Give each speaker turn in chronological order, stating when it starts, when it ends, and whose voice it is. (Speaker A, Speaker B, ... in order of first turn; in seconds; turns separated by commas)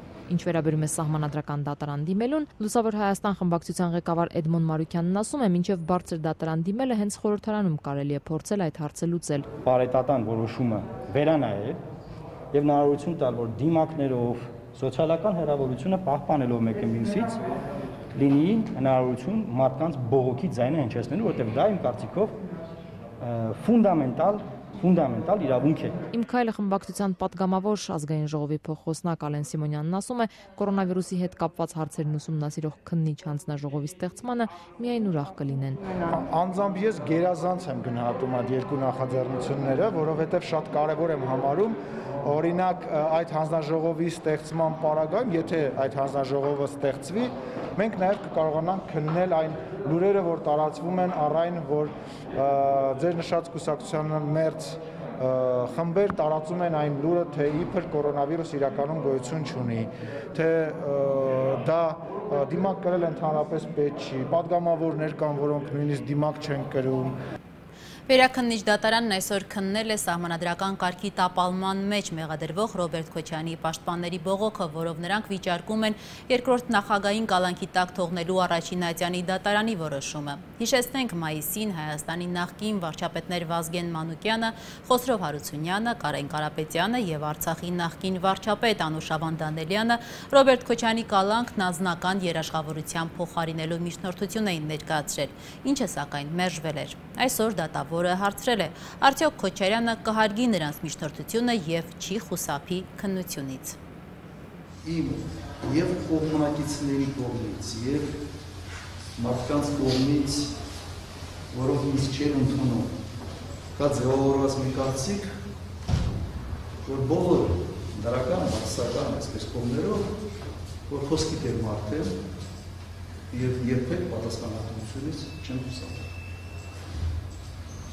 Speaker A: 0.3-9.5, Speaker B: 9.6-11.8, Speaker B: 12.5-17.4, Speaker B: 18.1-22.4, Speaker B: 23.2-26.0, Speaker A: 26.1-35.9, Speaker C: 36.0-67.1, Speaker D: 68.1-103.8, Speaker E: 104.8-108.2, Speaker E: 109.2-110.5, Speaker E: 111.5-113.0, Speaker E: 113.8-115.3, Speaker E: 116.8-120.1, Speaker E: 120.9-122.2, Speaker E: 123.3-126.1